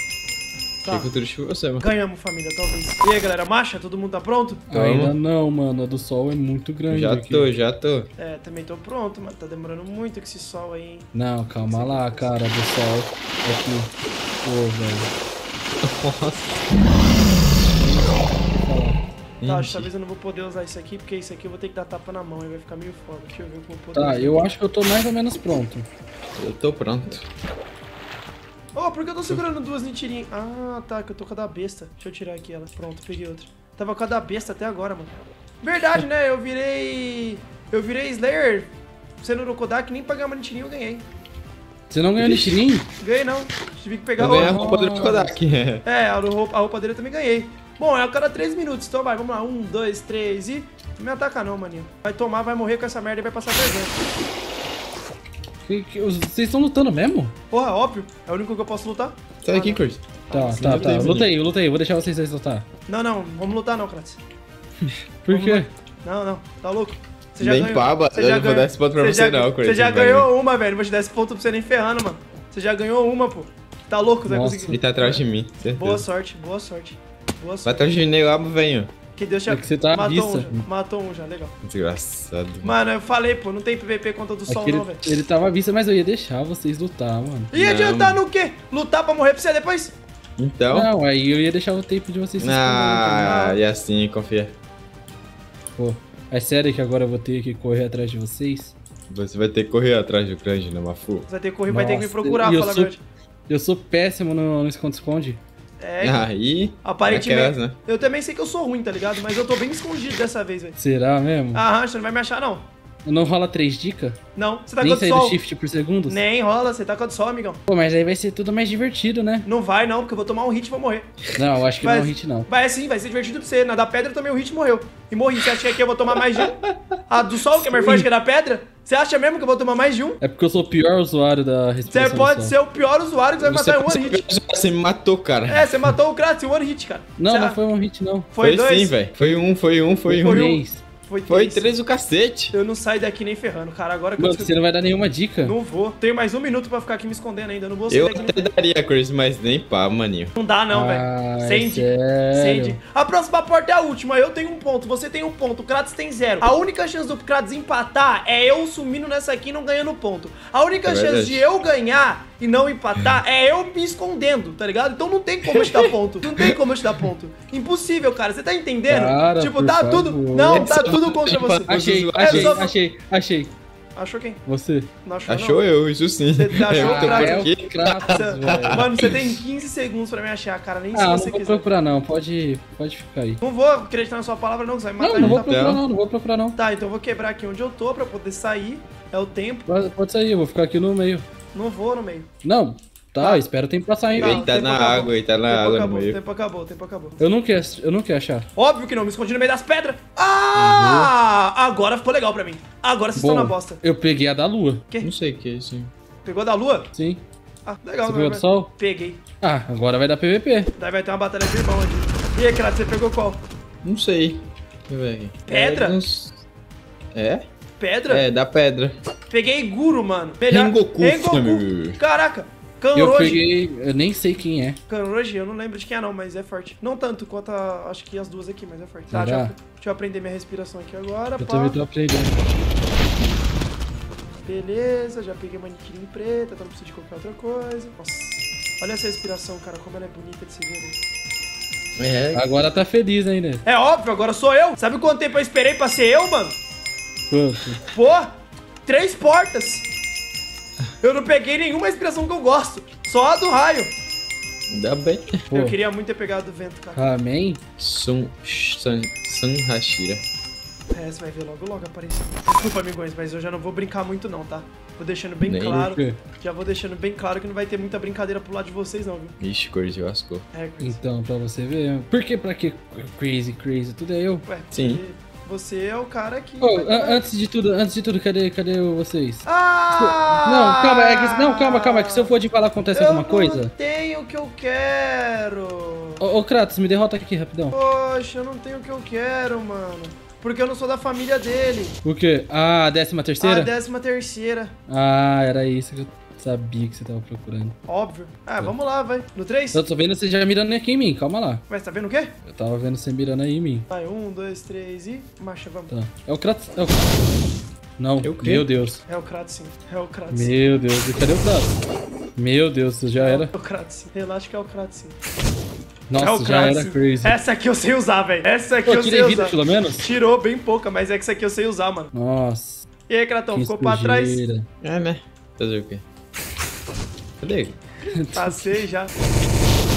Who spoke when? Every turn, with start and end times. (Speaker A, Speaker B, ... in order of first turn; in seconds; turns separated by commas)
Speaker A: 0.8-1.1, Speaker B: 0.9-1.8, Speaker A: 1.8-4.6, Speaker C: 4.7-7.5, Speaker B: 4.7-5.1, Speaker B: 6.9-8.1, Speaker A: 8.2-12.4, Speaker C: 11.1-13.9, Speaker C: 14.4-15.1, Speaker B: 15.8-16.6, Speaker C: 17.8-19.0, Speaker B: 19.4-19.9, Speaker A: 19.4-24.5, Speaker C: 23.9-25.9, Speaker B: 26.4-27.2, Speaker A: 28.7-38.7, Speaker A: 39.2-41.0, Speaker C: 41.9-42.9, Speaker B: 42.2-42.6, Speaker A: 43.0-44.6, Speaker B: 44.2-45.8, Speaker C: 44.2-45.3, Speaker A: 45.8-53.9, Speaker C: 55.6-57.3, Speaker A: 57.5-61.2, Speaker B: 59.4-60.0, Speaker C: 60.3-62.6, Speaker B: 60.5-61.3, Speaker A: 62.9-64.2, Speaker C: 64.8-65.7, Speaker A: 65.3-78.0, Speaker B: 67.4-70.3, Speaker C: 74.3-74.8, Speaker B: 74.7-76.0, Speaker B: 77.6-78.9, Speaker A: 79.2-81.5, Speaker C: 79.5-80.6, Speaker B: 81.6-82.7, Speaker A: 82.6-85.2, Speaker C: 84.5-88.2, Speaker A: 87.5-89.9, Speaker B: 90.4-90.9, Speaker C: 90.7-93.4, Speaker B: 92.4-94.5, Speaker A: 93.2-93.6, Speaker C: 95.8-98.7, Speaker B: 99.1-101.3, Speaker A: 101.3-103.0, Speaker C: 101.7-102.9, Speaker C: 103.5-105.4, Speaker A: 105.8-106.3, Speaker B: 106.0-107.8, Speaker A: 106.8-110.8, Speaker C: 110.8-111.6, Speaker A: 111.5-112.7, Speaker C: 113.0-114.2, Speaker A: 114.3-115.4, Speaker C: 114.8-116.2, Speaker A: 116.1-117.6, Speaker C: 117.7-119.5, Speaker A: 119.4-121.1, Speaker C: 121.3-122.5, Speaker A: 121.8-130.2, Speaker B: 126.4-126.7, Speaker C: 127.5-128.1, Speaker C: 130.2-132.5, Speaker A: 131.9-134.3, Speaker B: 133.4-135.9, Speaker A: 135.5-137.6, Speaker C: 137.2-138.3, Speaker A: 138.3-139.0, Speaker B: 138.4-140.5, Speaker C: 140.1-140.8, Speaker A: 140.2-141.7, Speaker B: 141.3-142.5, Speaker A: 142.5-144.5, Speaker C: 144.2-145.6, Speaker A: 145.4-148.5, Speaker B: 147.9-150.3, Speaker A: 150.3-172.7, Speaker C: 150.7-152.8, Speaker B: 160.8-161.4, Speaker B: 165.4-166.5, Speaker C: 168.9-170.8, Speaker B: 170.5-172.6, Speaker C: 171.6-173.5, Speaker A: 173.9-174.4, Speaker C: 174.4-174.9, Speaker A: 175.0-175.6, Speaker B: 175.2-179.4, Speaker A: 176.3-177.5, Speaker C: 176.7-179.1, Speaker A: 178.1-181.7, Speaker C: 180.9-183.4, Speaker A: 183.4-185.5, Speaker C: 185.0-186.6, Speaker B: 185.2-185.8, Speaker A: 186.5-189.7, Speaker C: 189.7-191.2, Speaker A: 191.5-192.3, Speaker C: 192.4-194.4, Speaker A: 193.2-193.4, Speaker A: 194.1-197.2, Speaker B: 194.2-196.2, Speaker C: 197.2-198.4, Speaker A: 198.6-203.8, Speaker C: 200.5-201.1, Speaker C: 203.2-204.8, Speaker B: 205.0-205.9, Speaker A: 206.2-206.9, Speaker C: 206.9-207.2, Speaker A: 207.7-209.2, Speaker C: 208.0-208.7, Speaker C: 209.4-210.7, Speaker A: 210.8-213.4, Speaker B: 213.8-216.4, Speaker A: 215.4-216.0, Speaker B: 217.1-217.4, Speaker A: 217.8-218.2, Speaker B: 218.1-218.9, Speaker A: 219.3-223.4, Speaker B: 220.5-222.0, Speaker C: 222.9-224.8, Speaker A: 224.9-231.8, Speaker C: 229.1-229.5, Speaker C: 231.4-232.4, Speaker A: 234.4-240.9, Speaker B: 242.0-242.4, Speaker C: 242.3-243.6, Speaker A: 243.6-246.6, Speaker C: 247.3-247.8, Speaker A: 247.9-248.3, Speaker A: 248.8-249.8, Speaker A: 251.0-253.9, Speaker B: 254.7-255.4, Speaker C: 255.5-255.7, Speaker A: 255.5-257.1, Speaker C: 256.9-257.6, Speaker B: 257.8-260.2, Speaker A: 260.9-269.4, Speaker B: 265.4-265.8, Speaker C: 265.7-266.2, Speaker B: 269.4-270.4, Speaker A: 270.5-271.0, Speaker C: 270.8-274.4, Speaker A: 274.4-277.2, Speaker B: 274.7-275.0, Speaker C: 276.6-279.4, Speaker A: 279.4-282.3, Speaker C: 280.0-283.7, Speaker A: 282.9-286.2, Speaker C: 286.2-287.7, Speaker A: 287.7-291.9, Speaker C: 292.0-293.7, Speaker A: 293.4-294.7, Speaker C: 294.9-297.7, Speaker A: 297.9-299.8, Speaker C: 299.7-301.6, Speaker A: 301.7-302.3, Speaker C: 302.4-303.9, Speaker A: 303.9-305.9, Speaker C: 305.9-307.3, Speaker C: 308.0-309.0, Speaker B: 308.2-308.7, Speaker A: 309.1-310.5, Speaker C: 310.3-311.8, Speaker C: 312.4-313.5, Speaker A: 313.2-315.1, Speaker C: 316.1-317.4, Speaker A: 316.1-322.1, Speaker C: 318.9-320.1, Speaker C: 322.1-322.9, Speaker A: 323.1-324.4, Speaker C: 323.5-324.6, Speaker B: 324.8-326.0, Speaker B: 327.4-327.8, Speaker C: 328.2-328.8, Speaker A: 328.3-329.1